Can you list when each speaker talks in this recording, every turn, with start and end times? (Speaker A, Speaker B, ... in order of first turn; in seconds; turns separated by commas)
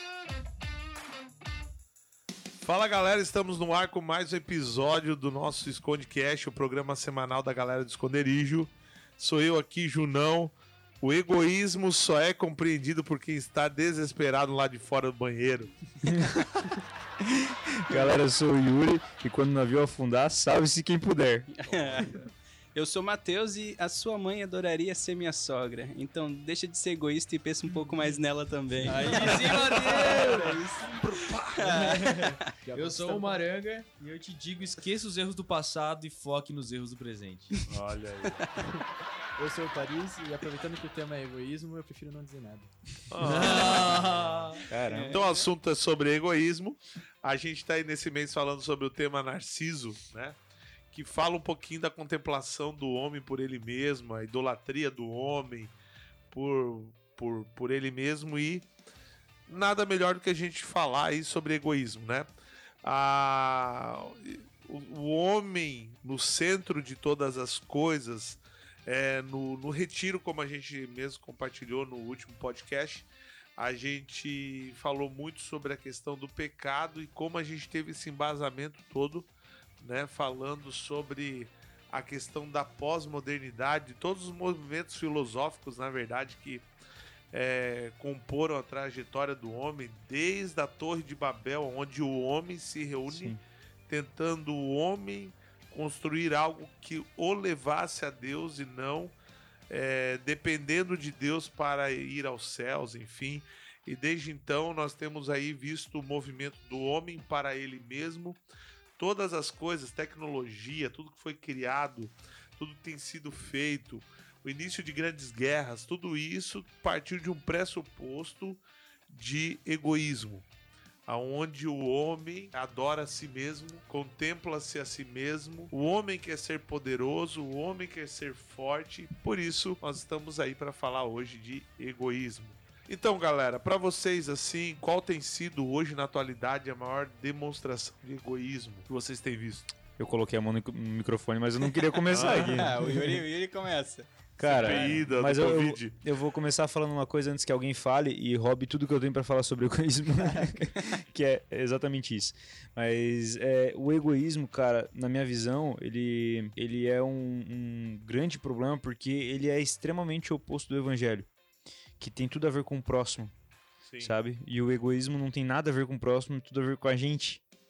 Speaker A: 2.6-15.7, Speaker B: 16.1-16.7, Speaker B: 17.2-21.5, Speaker C: 21.5-22.2, Speaker A: 21.7-22.1, Speaker C: 22.8-29.5, Speaker D: 28.8-31.0, Speaker E: 28.9-30.6, Speaker A: 30.9-31.6, Speaker D: 31.5-33.4, Speaker E: 31.6-37.6, Speaker A: 37.7-38.4, Speaker D: 38.6-38.9, Speaker D: 39.4-42.8, Speaker A: 43.1-44.5, Speaker E: 43.2-44.7, Speaker D: 43.3-43.9, Speaker B: 44.7-45.1, Speaker D: 44.7-45.4, Speaker C: 44.9-45.2, Speaker A: 45.0-50.4, Speaker A: 50.9-55.7, Speaker A: 56.3-58.7, Speaker A: 59.5-62.3, Speaker A: 62.8-86.7, Speaker A: 87.3-99.2, Speaker B: 93.1-93.4, Speaker A: 99.7-108.4, Speaker A: 109.0-120.5, Speaker A: 121.1-139.7, Speaker B: 140.0-143.2, Speaker A: 142.1-142.7, Speaker D: 142.3-145.0, Speaker C: 142.9-143.2, Speaker B: 144.4-161.3, Speaker A: 144.4-146.0, Speaker B: 162.0-163.3, Speaker A: 163.9-164.2, Speaker B: 164.0-167.4